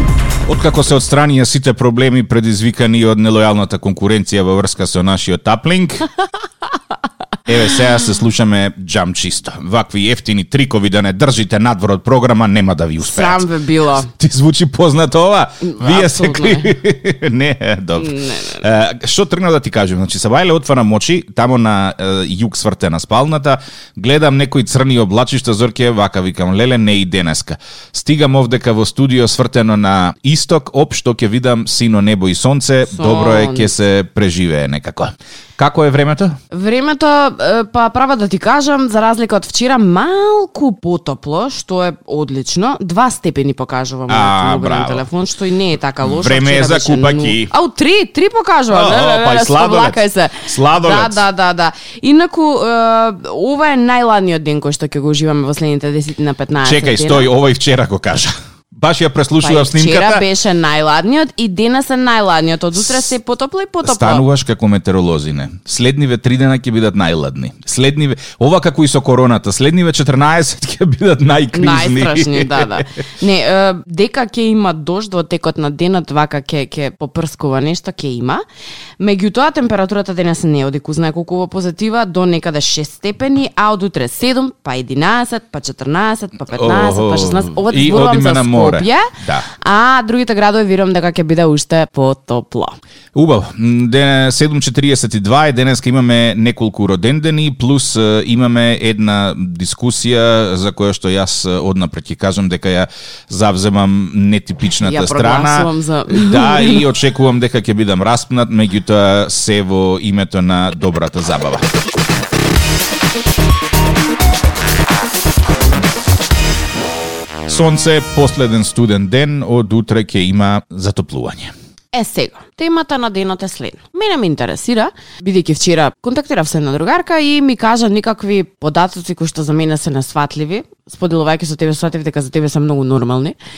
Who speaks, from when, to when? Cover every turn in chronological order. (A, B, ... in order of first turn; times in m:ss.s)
0:00.5-0:06.1 A
0:07.5-0:13.5 A
0:13.0-0:14.1 B
0:14.1-0:36.4 A
0:15.6-0:16.7 B
0:18.0-0:18.6 B
0:32.9-0:33.7 B
0:36.5-0:57.3 B
0:44.1-0:45.0 A
0:46.0-0:47.5 A
0:48.7-0:51.2 A
0:56.6-1:00.2 A
0:59.4-1:04.2 B
1:02.8-1:03.1 A
1:03.8-1:12.9 A
1:11.5-1:18.4 B
1:19.0-1:29.1 B
1:26.5-1:29.5 A
1:29.6-1:32.8 B
1:33.1-1:51.7 A
1:44.8-1:46.8 B
1:57.5-2:01.5 A
2:01.9-2:13.4 B